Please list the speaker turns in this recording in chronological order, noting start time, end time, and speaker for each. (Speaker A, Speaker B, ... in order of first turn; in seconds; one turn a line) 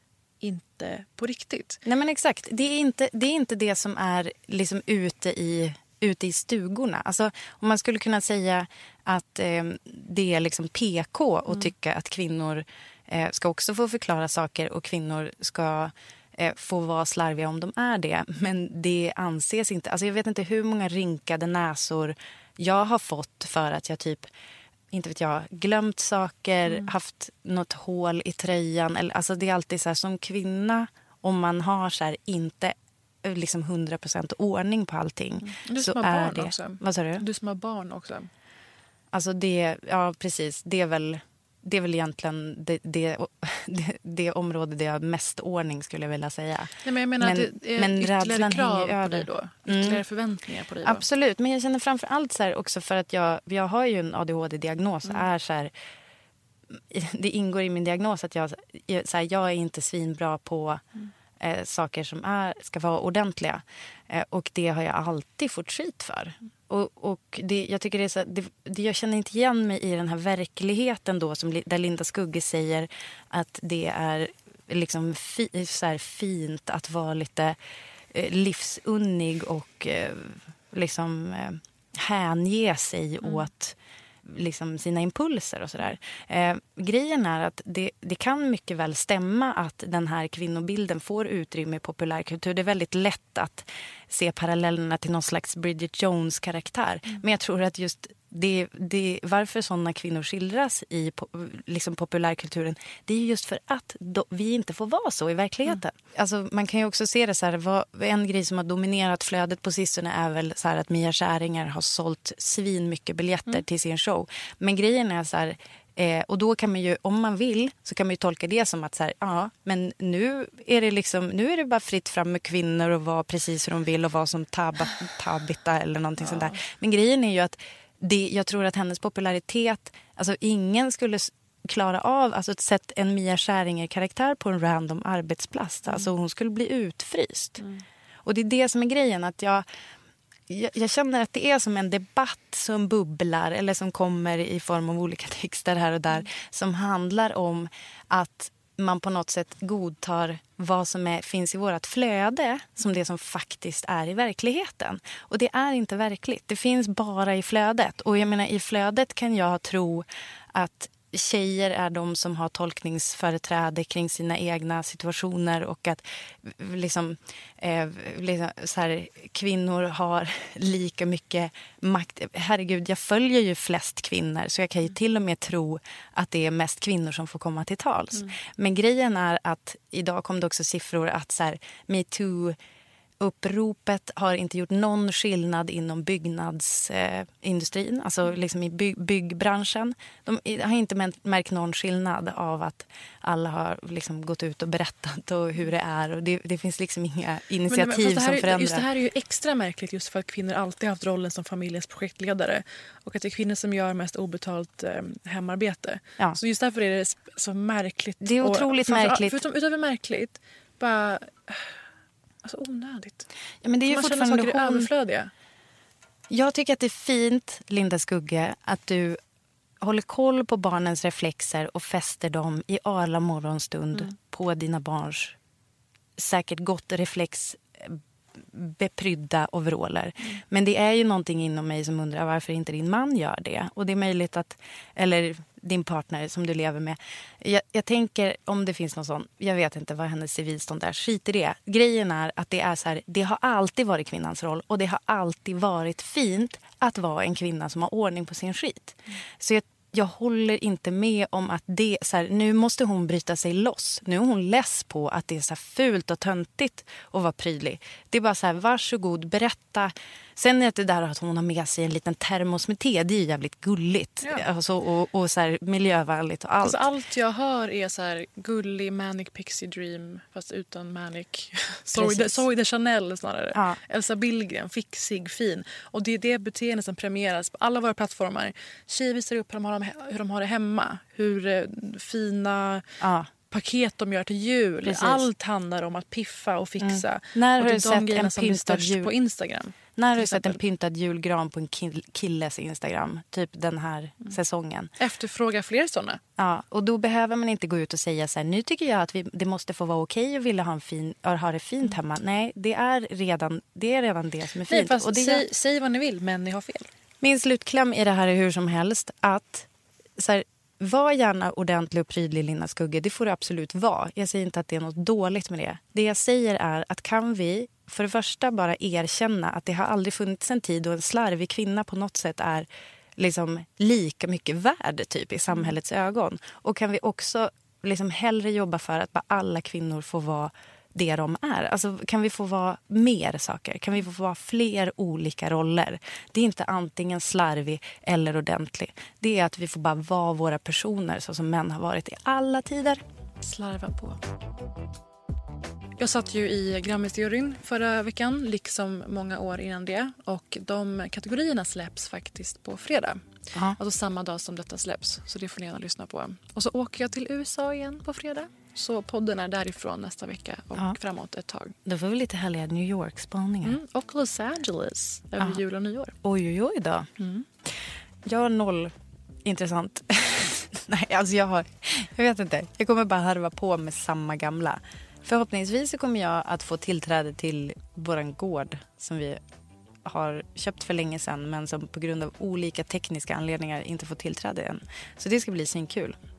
Speaker A: 0.4-1.8
Speaker B: 1.8-24.3
Speaker B: 24.9-37.2
Speaker A: 26.6-26.9
Speaker A: 35.4-38.3
Speaker B: 39.1-50.0
Speaker A: 46.8-51.0
Speaker B: 50.8-55.7
Speaker B: 56.7-60.8
Speaker B: 61.4-77.6
Speaker B: 78.1-137.6
Speaker A: 83.2-83.5
Speaker A: 126.2-126.6
Speaker B: 138.2-139.7
Speaker B: 140.5-182.6
Speaker B: 183.2-198.9
Speaker A: 197.7-211.8
Speaker B: 208.2-209.4
Speaker A: 212.4-213.3
Speaker B: 213.6-214.9
Speaker A: 213.9-215.3
Speaker B: 216.3-219.2
Speaker B: 219.8-225.3
Speaker B: 226.2-266.9
Speaker A: 266.6-282.8
Speaker B: 271.9-272.4
Speaker B: 273.5-273.8
Speaker B: 283.0-283.3
Speaker A: 283.5-290.6
Speaker B: 284.8-285.2
Speaker B: 286.8-289.1
Speaker B: 289.9-294.9
Speaker A: 295.0-296.2
Speaker B: 296.4-305.4
Speaker A: 304.7-306.9
Speaker B: 307.2-343.0
Speaker A: 343.4-344.2
Speaker A: 346.0-353.2
Speaker A: 353.8-361.7
Speaker B: 361.8-363.8
Speaker A: 363.6-366.1
Speaker B: 366.2-367.1
Speaker A: 367.2-367.4
Speaker B: 368.2-368.9
Speaker B: 369.4-379.4
Speaker B: 380.0-386.2